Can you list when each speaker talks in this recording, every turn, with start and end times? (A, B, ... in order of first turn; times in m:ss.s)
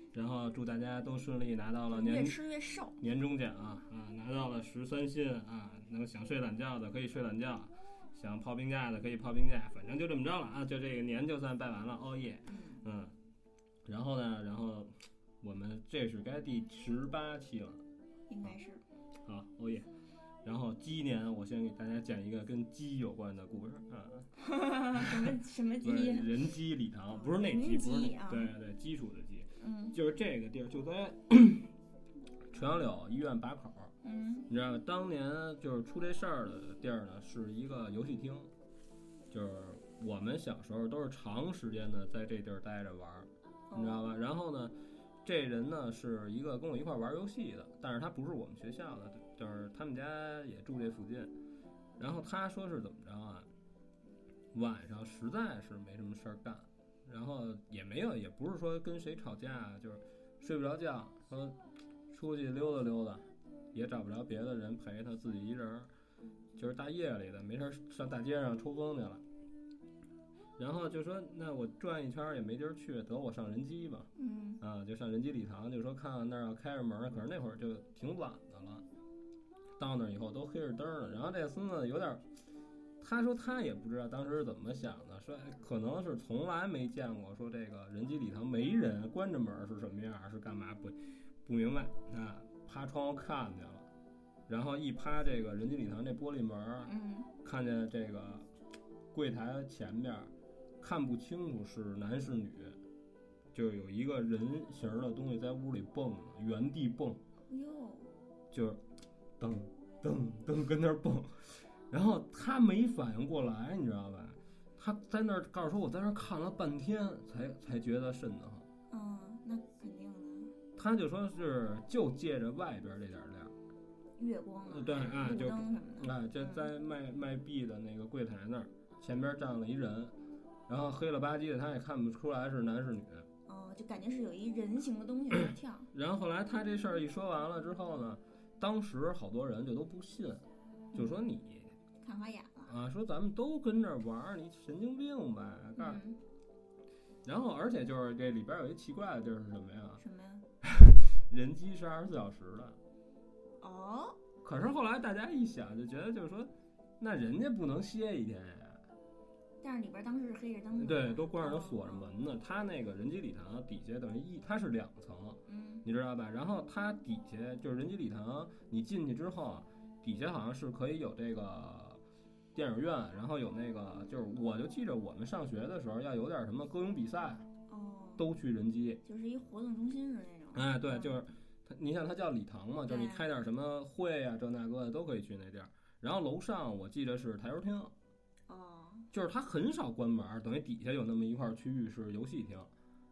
0:00.1-0:02.4 A
0:01.9-0:03.0 B
0:03.0-0:13.2 A
0:12.5-0:12.8 B
0:13.8-0:17.8 A
0:18.3-0:18.8 B
0:19.2-0:19.9 A
0:20.4-0:24.3 A
0:24.4-0:26.4 B
0:25.8-0:31.7 A
0:27.1-0:28.5 B
0:29.6-0:30.0 B
0:32.5-0:33.9 A
0:34.0-0:34.5 B
0:34.5-0:38.5 A
0:39.3-0:51.3 A
0:43.7-0:44.0 B
0:52.0-0:53.5 A
0:54.5-1:01.6 A
1:02.1-1:05.9 A
1:06.6-1:09.2 A
1:10.6-1:14.1 A
1:14.2-1:14.6 B
1:14.6-1:18.8 A
1:19.8-1:22.2 A
1:23.0-1:33.9 A
1:34.5-1:36.9 A
1:36.8-1:37.3 B
1:37.4-1:38.5 A
1:39.1-1:42.8 A
1:43.5-1:47.2 A
1:47.5-1:48.1 B
1:48.5-1:48.8 A
1:49.4-1:58.7 A
1:58.9-2:00.6 B
2:00.8-2:03.5 A
2:04.2-2:06.7 B
2:04.6-2:10.1 A
2:10.7-2:13.3 A
2:13.5-2:15.9 B
2:15.3-2:21.7 A
2:20.9-2:21.2 B
2:22.0-2:22.7 B
2:22.7-2:26.0 A
2:25.8-2:26.2 B
2:27.2-2:30.0 A
2:30.0-2:30.5 B
2:30.6-2:32.8 A
2:33.6-2:34.2 B
2:34.4-2:38.8 A
2:39.6-2:42.1 B
2:40.8-2:52.0 A
2:45.4-2:45.8 B
2:52.5-2:57.4 A
2:57.7-2:58.2 B
2:58.2-2:59.0 A
2:59.0-3:01.2 B
3:00.5-3:07.9 A
3:02.9-3:03.3 B
3:08.5-3:09.1 B
3:09.1-3:12.7 A